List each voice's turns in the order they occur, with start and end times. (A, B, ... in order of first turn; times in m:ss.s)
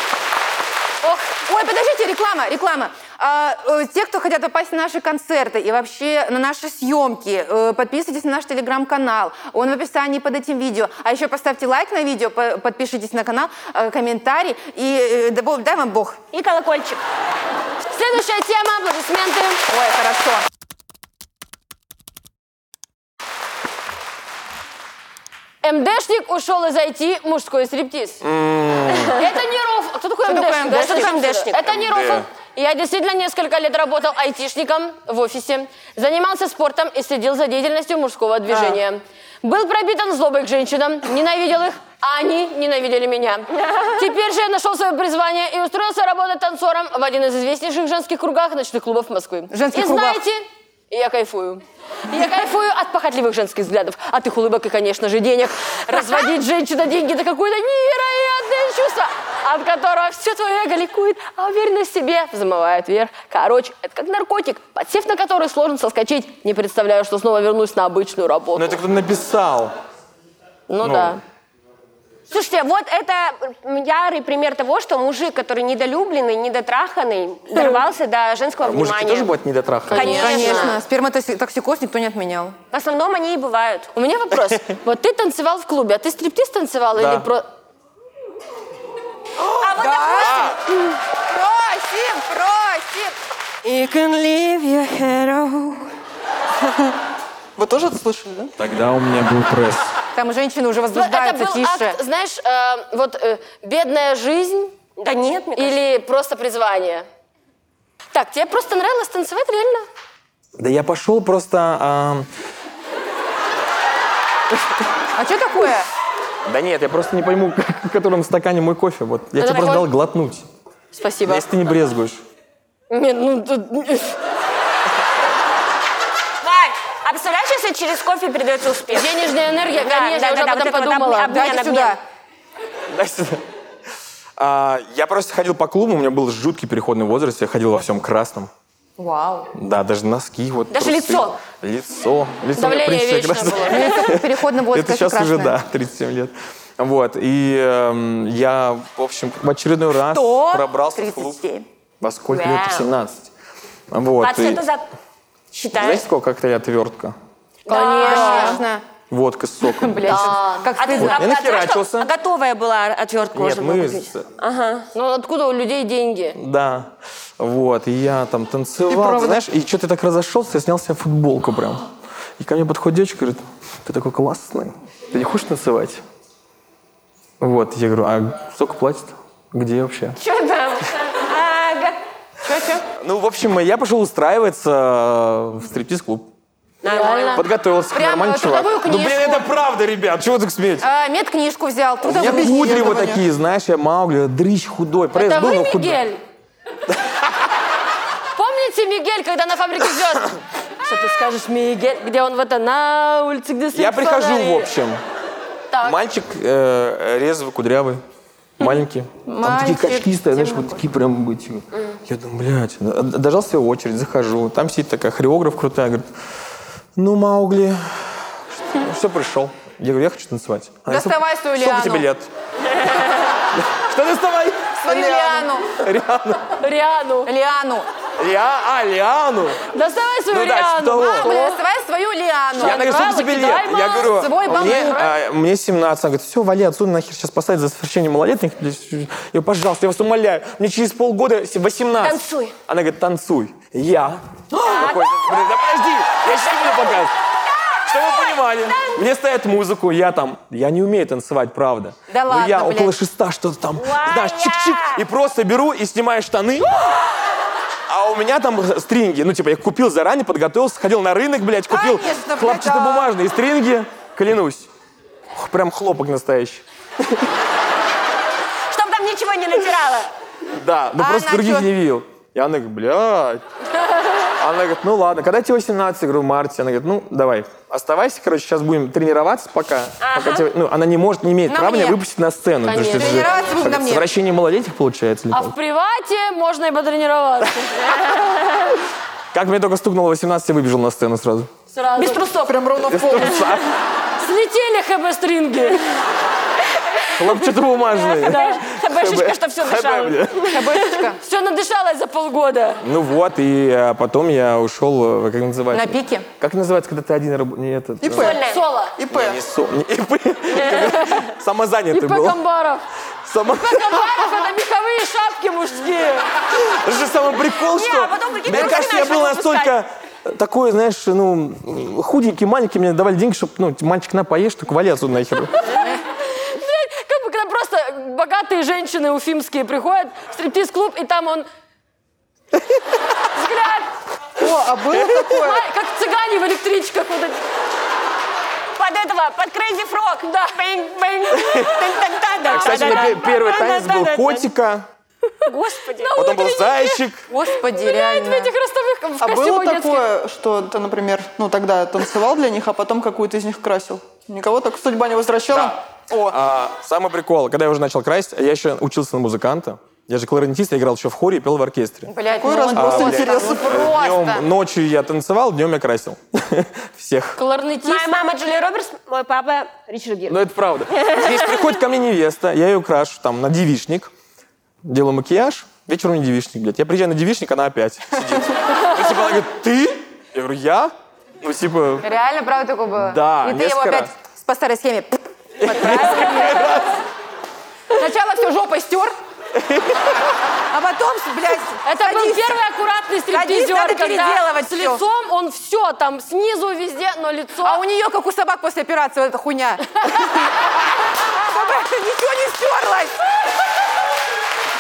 0:01.0-0:01.3 A
0:01.4-0:16.2 B
0:16.3-0:17.0 C
0:17.9-0:19.6 A
0:19.7-0:20.4 B
0:25.6-0:28.2 A
0:28.2-0:29.2 D
0:29.1-1:08.8 A
0:30.2-0:31.2 B
0:30.7-0:31.6 C
0:31.6-0:32.3 D
0:43.6-0:43.9 C
0:49.5-0:50.2 B
1:08.6-1:09.7 D
1:10.7-1:11.2 A
1:10.8-1:11.2 D
1:12.3-1:19.3 C
1:17.6-1:17.8 A
1:18.6-1:20.2 D
1:19.9-1:20.8 A
1:19.9-1:20.8 C
1:20.0-1:22.6 B
1:22.7-1:23.9 C
1:24.0-1:27.5 A
1:27.0-1:27.3 D
1:29.4-1:30.6 B
1:29.6-1:30.6 C
1:30.2-1:30.6 D
1:31.3-1:33.2 B
1:33.7-1:35.4 E
1:36.6-1:37.0 E
1:37.6-1:38.5 E
1:38.6-1:39.9 D
1:40.2-1:42.0 B
1:40.9-1:44.7 A
1:45.0-1:45.8 C
1:45.6-1:47.1 A
1:48.1-1:49.9 A
1:50.6-1:52.3 D
1:55.2-1:55.9 B
1:56.5-2:00.5 D
1:59.4-1:59.9 A
2:00.9-2:01.5 A
2:01.2-2:02.2 D
2:02.9-2:04.2 A
2:06.4-2:12.0 C
2:08.9-2:11.4 A
2:11.3-2:12.0 B
2:12.9-2:13.4 D
2:14.4-2:18.5 D
2:19.0-2:19.5 B
2:19.6-2:31.4 D
2:20.7-2:21.4 C
2:22.6-2:24.1 A
2:23.6-2:25.6 B
2:30.0-2:31.7 B
2:32.0-2:33.3 D
2:32.3-2:32.9 C
2:33.9-2:34.6 D
2:34.2-2:34.8 C
2:35.5-2:36.0 C
2:35.7-2:37.2 D
2:37.7-2:38.6 C
2:37.7-2:38.6 A
2:37.8-2:38.9 B
2:39.1-2:40.4 D
2:39.7-2:41.3 B
2:40.0-2:44.9 C
2:40.1-2:40.6 A
2:41.0-2:42.1 D
2:43.3-2:44.3 D
2:44.9-2:46.4 A
2:46.4-2:51.9 D
2:48.9-2:49.4 E
2:52.4-2:56.0 D
2:57.4-3:00.2 D
3:00.2-3:02.0 C
3:02.4-3:02.9 B
3:02.9-3:06.3 D
3:06.8-3:07.4 C
3:06.8-3:07.5 A
3:07.4-3:10.8 D
3:07.9-3:09.5 B
3:10.8-3:13.0 B
3:12.0-3:16.0 D
3:12.1-3:13.2 E
3:15.2-3:16.2 A
3:18.4-3:24.7 A
3:23.7-3:25.0 D
3:25.7-3:26.0 A
3:25.8-3:28.0 D
3:28.6-3:36.1 D
3:29.3-3:30.8 B
3:37.0-3:42.3 D
3:40.9-3:42.1 B
3:43.5-3:46.6 D
3:44.8-3:45.7 B
3:45.0-3:45.5 E
3:46.6-3:47.3 A
3:47.3-3:47.9 B
3:48.2-3:49.6 D
3:49.7-3:51.6 A
3:50.3-3:51.4 D
3:51.0-3:52.8 B
3:52.6-3:55.1 A
3:52.6-4:07.1 D
3:54.1-3:55.1 B
4:02.0-4:02.6 C
4:04.6-4:05.5 C
4:06.7-4:07.0 C
4:07.7-4:09.0 C
4:07.8-4:16.9 D
4:12.1-4:13.0 B
4:13.8-4:15.0 C
4:17.9-4:24.7 D
4:21.7-4:23.1 B
4:25.4-4:27.2 D
4:28.7-4:30.1 C
4:30.5-4:33.4 D
4:31.0-4:31.7 B
4:34.4-4:45.6 D
4:40.0-4:40.4 C
4:41.5-4:42.0 B
4:42.6-4:43.4 A
4:42.9-4:44.1 B
4:45.3-4:48.0 A
4:49.3-4:51.5 D
4:51.7-4:52.3 A
4:52.0-4:52.6 C
4:52.3-4:53.5 E
4:52.8-4:53.7 D
4:54.2-4:55.8 A
4:57.1-5:00.5 D
4:58.0-4:58.6 A
4:58.0-5:01.0 C
5:00.4-5:01.2 B
5:01.2-5:02.8 A
5:02.8-5:08.4 D
5:05.7-5:06.3 B
5:08.0-5:08.4 E
5:08.1-5:08.6 C
5:08.4-5:09.0 A
5:09.0-5:09.4 E
5:09.1-5:12.4 D
5:10.6-5:11.3 A
5:11.9-5:12.8 A
5:13.2-5:14.3 D
5:13.6-5:16.4 A
5:16.5-5:25.5 D
5:17.7-5:19.7 C
5:25.8-5:31.5 A
5:33.3-5:33.9 A
5:34.4-5:35.6 E
5:35.2-5:37.4 A
5:38.8-5:44.5 C
5:40.2-5:40.7 A
5:41.3-5:41.8 A
5:41.4-5:41.7 D
5:42.4-5:44.9 D
5:42.5-5:43.3 A
5:45.4-5:46.1 C
5:45.5-5:47.0 A
5:46.2-5:47.3 D
5:47.3-5:48.5 B
5:47.6-5:50.1 A
5:49.2-5:56.4 E
5:55.5-6:02.1 D
6:02.1-6:04.5 B
6:02.4-6:03.8 E
6:02.7-6:07.4 D
6:07.4-6:08.1 A
6:07.8-6:10.4 C
6:10.3-6:14.1 D
6:10.9-6:11.6 C
6:14.8-6:22.0 D
6:22.0-6:26.6 B
6:23.0-6:24.1 D
6:25.6-6:27.0 D
6:25.9-6:26.9 A
6:27.9-6:29.2 B
6:29.6-6:30.0 D
6:30.7-6:32.6 B
6:31.8-6:37.8 A
6:33.3-6:35.0 B
6:37.6-6:43.2 B